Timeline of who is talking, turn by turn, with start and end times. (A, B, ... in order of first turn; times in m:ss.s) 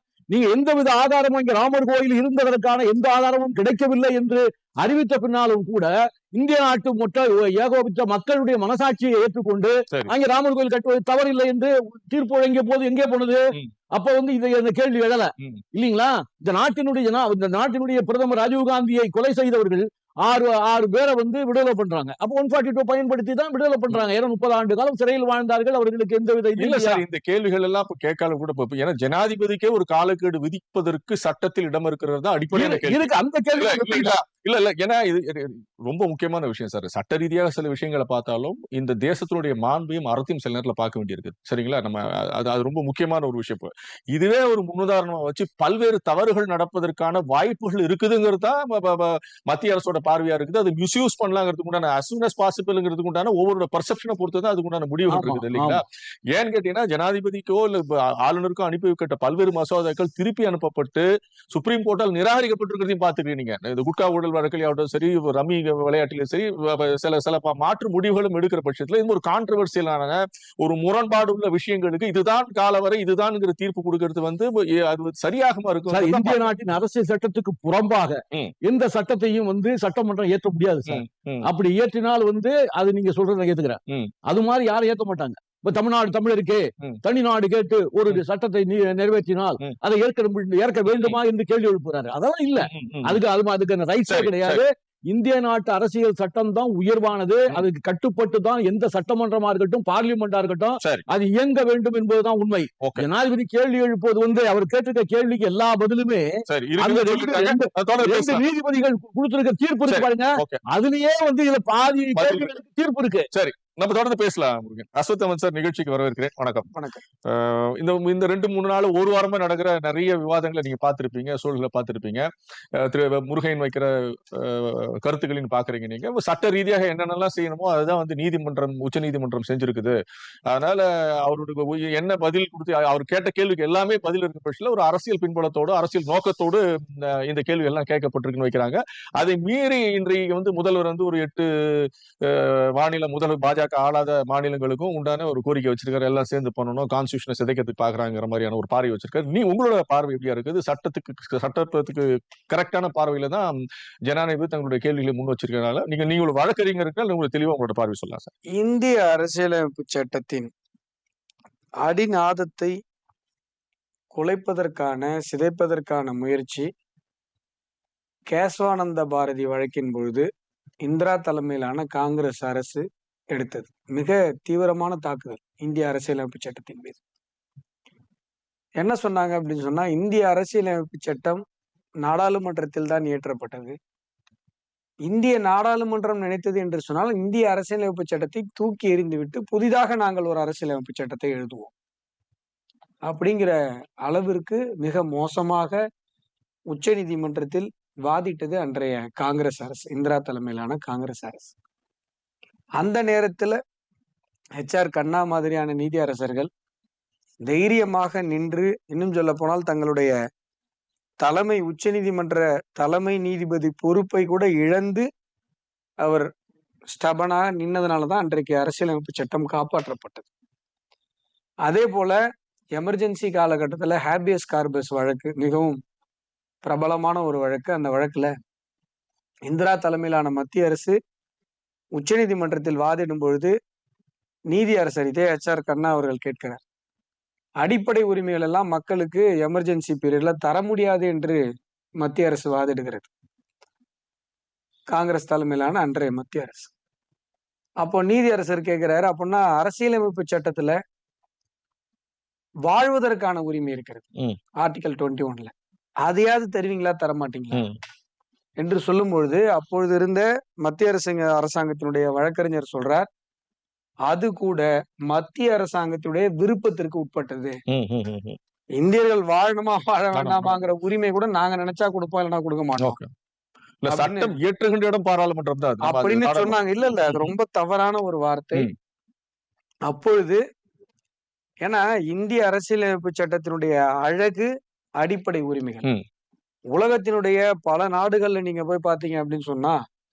0:00.3-0:27.0 A
0:26.6-1:16.5 B
0:32.5-0:34.2 A
0:55.1-0:55.8 A
1:15.9-1:53.3 A
1:20.9-1:21.5 B
1:32.7-1:33.2 B
1:34.1-1:34.6 B
1:42.8-1:43.1 B
1:46.5-1:48.4 B
1:49.9-1:50.6 B
1:52.2-1:52.5 B
1:53.3-1:56.7 B
1:56.7-1:57.0 C
1:57.2-2:33.5 B
2:34.1-2:38.3 B
2:38.6-2:40.5 C
2:41.8-2:42.7 C
2:44.1-2:46.7 C
2:48.3-2:50.3 C
2:50.8-2:57.0 C
2:58.8-3:01.4 C
3:02.0-3:03.8 C
3:05.0-3:11.7 C
3:13.1-3:15.8 C
3:16.7-3:21.5 C
3:22.8-3:23.6 C
3:24.6-3:26.5 C
3:27.5-3:30.1 C
3:31.2-3:35.1 C
3:36.0-3:36.3 C
3:36.9-3:40.3 C
3:41.6-3:42.2 C
3:42.8-3:45.8 C
3:46.6-3:48.3 C
3:49.5-3:51.0 C
3:52.0-3:53.5 C
3:54.5-3:56.6 C
3:57.6-4:01.4 C
4:02.0-4:03.1 C
4:04.9-4:06.7 C
4:07.8-4:10.8 C
4:12.7-4:14.0 C
4:14.6-4:15.5 C
4:16.0-4:17.6 C
4:17.5-4:17.8 B
4:18.6-4:23.1 C
4:24.1-4:27.6 C
4:27.7-4:28.4 B
4:28.8-4:33.0 C
4:30.1-4:30.6 B
4:32.8-4:33.1 B
4:33.8-4:37.3 B
4:33.9-4:34.3 C
4:35.8-4:38.7 C
4:39.9-4:40.4 C
4:41.6-4:44.5 C
4:45.0-4:45.9 C
4:46.7-4:49.8 C